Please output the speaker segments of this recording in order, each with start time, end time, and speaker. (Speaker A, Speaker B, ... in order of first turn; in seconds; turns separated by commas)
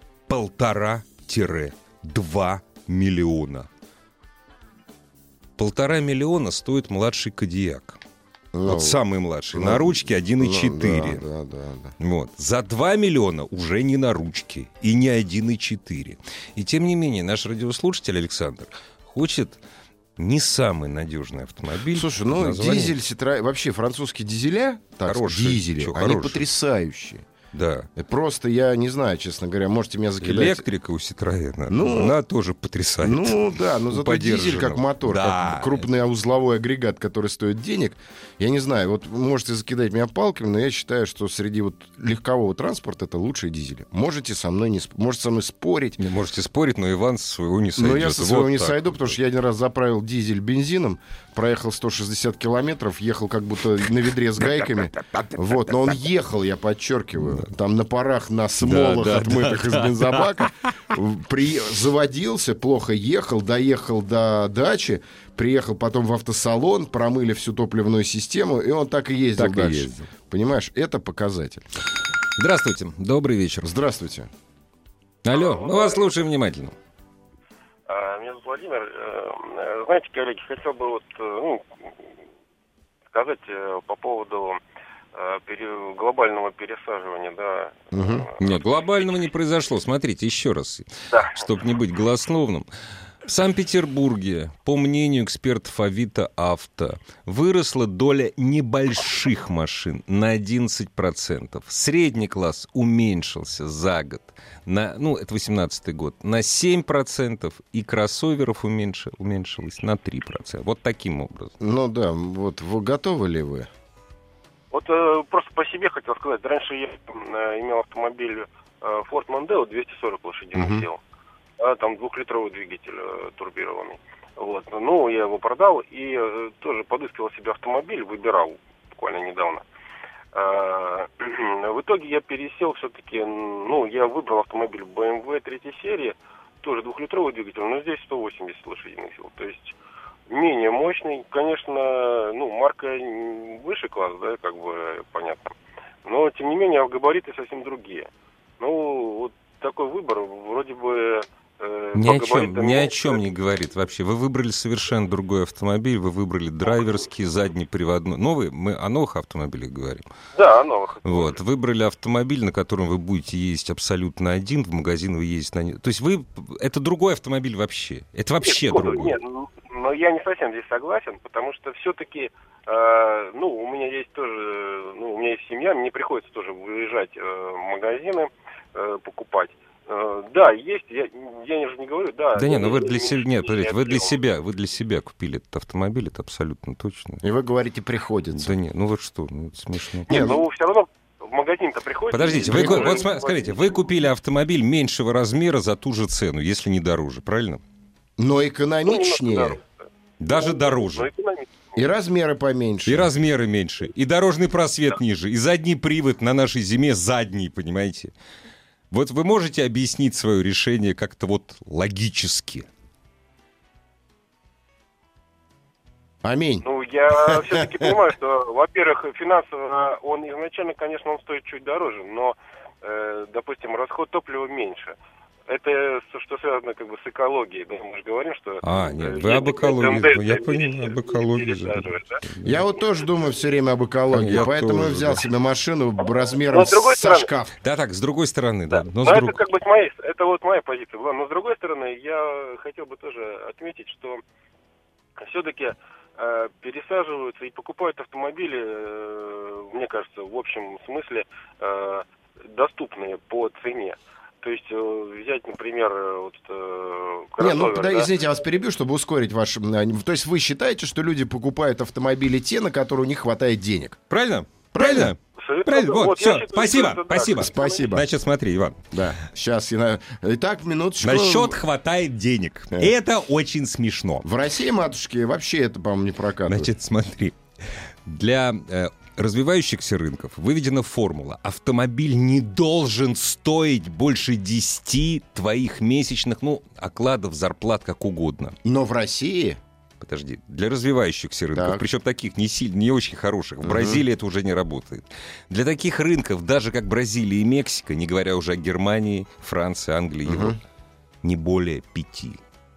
Speaker A: 0.3-3.7, Speaker A: 5.6-8.0, Speaker B: 8.5-9.0, Speaker A: 8.7-11.2, Speaker B: 9.5-11.9, Speaker A: 12.0-19.6, Speaker A: 20.2-22.9, Speaker B: 21.9-27.3, Speaker A: 25.1-26.4, Speaker A: 27.5-27.9, Speaker B: 28.0-30.6, Speaker A: 30.2-35.9, Speaker B: 31.7-32.2, Speaker B: 33.0-46.0, Speaker A: 46.0-49.1, Speaker B: 47.8-71.7, Speaker A: 55.1-55.8, Speaker A: 58.6-60.5, Speaker A: 69.4-70.1, Speaker A: 72.4-73.7, Speaker B: 73.6-74.3, Speaker A: 75.2-76.8, Speaker C: 75.3-76.1, Speaker C: 77.9-81.8, Speaker C: 83.1-84.6, Speaker C: 85.1-88.6, Speaker B: 87.9-88.3, Speaker A: 88.4-92.7, Speaker C: 91.1-91.4, Speaker A: 93.2-111.5, Speaker B: 111.6-113.7, Speaker C: 114.7-121.0, Speaker B: 120.5-120.9, Speaker C: 121.6-129.7, Speaker C: 130.3-139.8, Speaker C: 140.3-145.5, Speaker C: 146.1-148.1, Speaker C: 148.6-153.2, Speaker A: 151.9-160.1, Speaker C: 160.3-161.4, Speaker A: 161.1-169.2, Speaker C: 168.4-184.2, Speaker A: 182.3-187.2, Speaker B: 187.2-188.6, Speaker A: 188.3-190.3, Speaker C: 190.1-193.8, Speaker B: 190.1-190.4, Speaker A: 192.1-197.6, Speaker B: 192.4-193.0, Speaker B: 198.2-199.6, Speaker C: 198.9-199.6, Speaker A: 200.2-201.1, Speaker C: 200.3-201.7, Speaker B: 201.8-203.1, Speaker A: 202.9-208.1, Speaker A: 208.9-212.7, Speaker B: 216.2-216.7, Speaker C: 216.6-225.0, Speaker B: 217.2-217.9, Speaker C: 225.5-232.2, Speaker A: 228.6-232.6, Speaker B: 232.4-237.5, Speaker A: 234.1-235.2, Speaker C: 236.5-237.3, Speaker A: 237.6-239.4, Speaker C: 238.7-244.2, Speaker C: 245.2-258.1, Speaker B: 257.4-264.0, Speaker A: 264.1-268.8, Speaker B: 264.7-265.1, Speaker C: 265.4-267.9, Speaker B: 267.4-268.1, Speaker B: 268.9-271.6, Speaker A: 271.0-274.3, Speaker B: 274.2-276.7, Speaker A: 276.5-277.4, Speaker A: 278.1-288.6, Speaker B: 288.6-289.6, Speaker A: 290.0-300.6, Speaker B: 291.6-291.8, Speaker B: 293.6-294.0, Speaker B: 300.2-300.6, Speaker A: 301.2-302.4